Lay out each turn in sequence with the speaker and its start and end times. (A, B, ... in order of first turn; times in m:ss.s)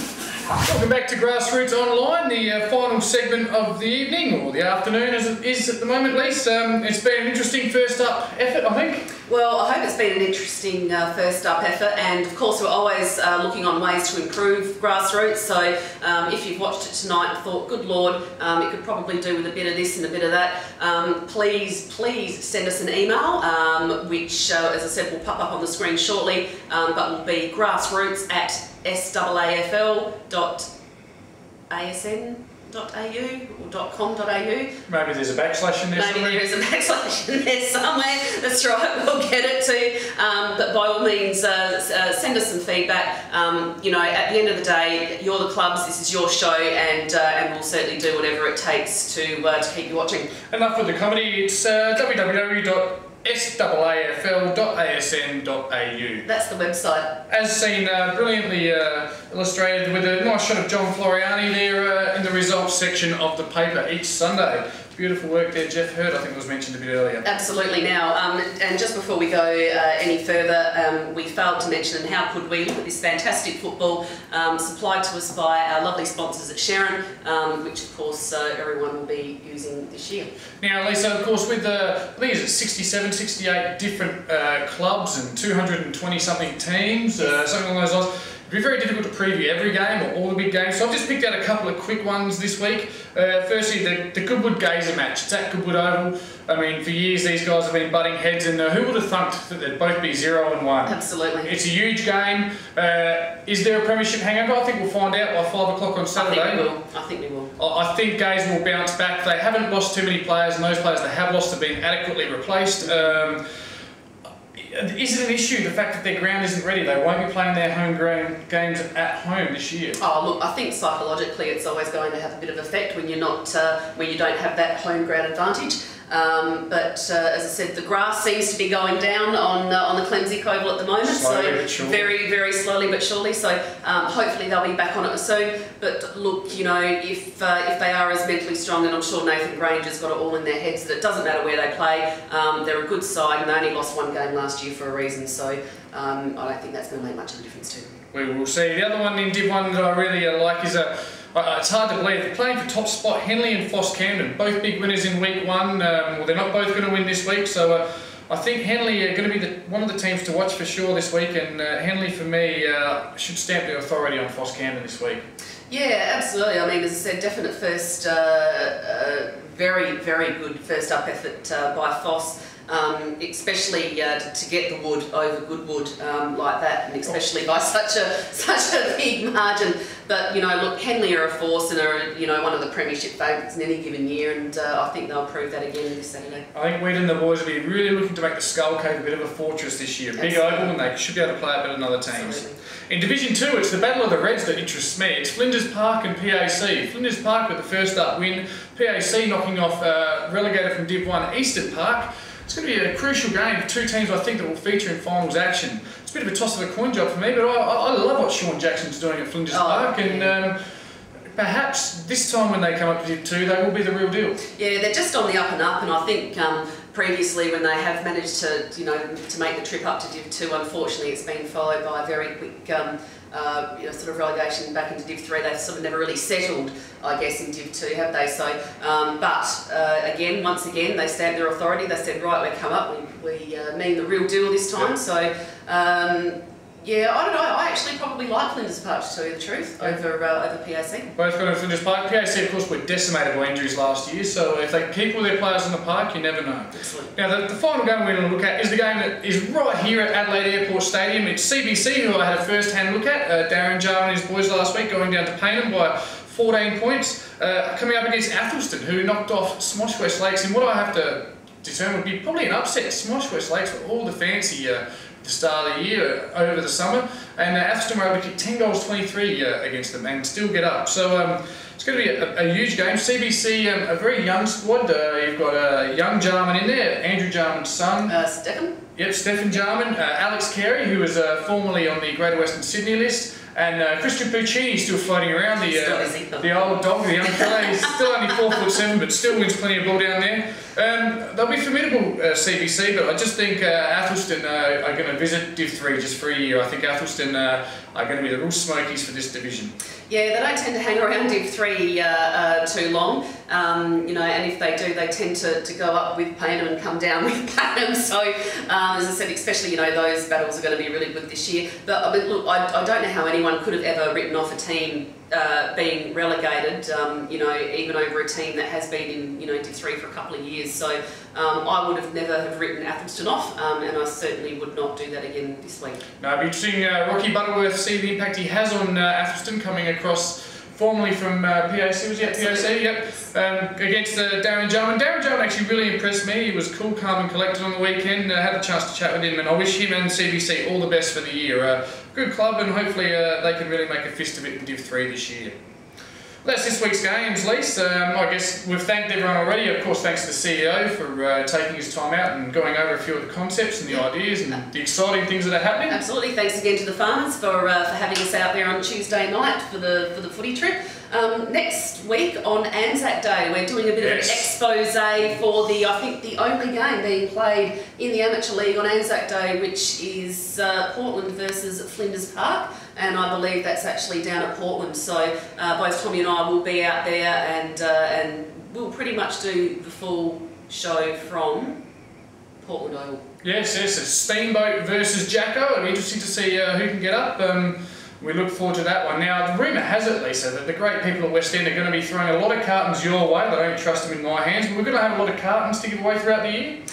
0:00.6-0:09.1 A
0:09.3-0:30.7 B
0:31.7-0:34.7 B
0:34.9-0:36.4 A
0:35.9-0:50.3 B
0:50.5-0:56.3 A
0:56.2-0:57.2 B
0:57.3-1:07.3 A
1:07.2-1:20.3 B
1:20.6-1:46.7 A
1:40.9-1:41.5 B
1:46.2-1:47.5 B
1:47.6-1:53.4 A
1:52.8-1:53.1 B
1:54.5-2:00.0 A
2:00.0-2:27.9 B
2:11.0-2:12.1 A
2:28.1-2:45.3 A
2:45.7-3:06.5 B
3:06.5-3:30.6 A
3:10.2-3:10.7 B
3:12.1-3:12.6 B
3:29.5-3:30.3 B
3:31.3-3:34.4 A
3:34.5-4:01.1 B
4:01.2-4:38.2 A
4:06.7-4:07.1 B
4:38.1-4:38.8 B
4:39.0-4:59.8 A
4:45.7-4:47.9 B
5:00.1-5:26.0 B
5:26.2-5:45.6 A
5:32.2-5:32.7 B
5:46.4-5:56.0 A
5:55.9-6:21.8 B
6:04.0-6:04.5 A
6:22.6-6:23.2 B
6:23.4-6:36.8 A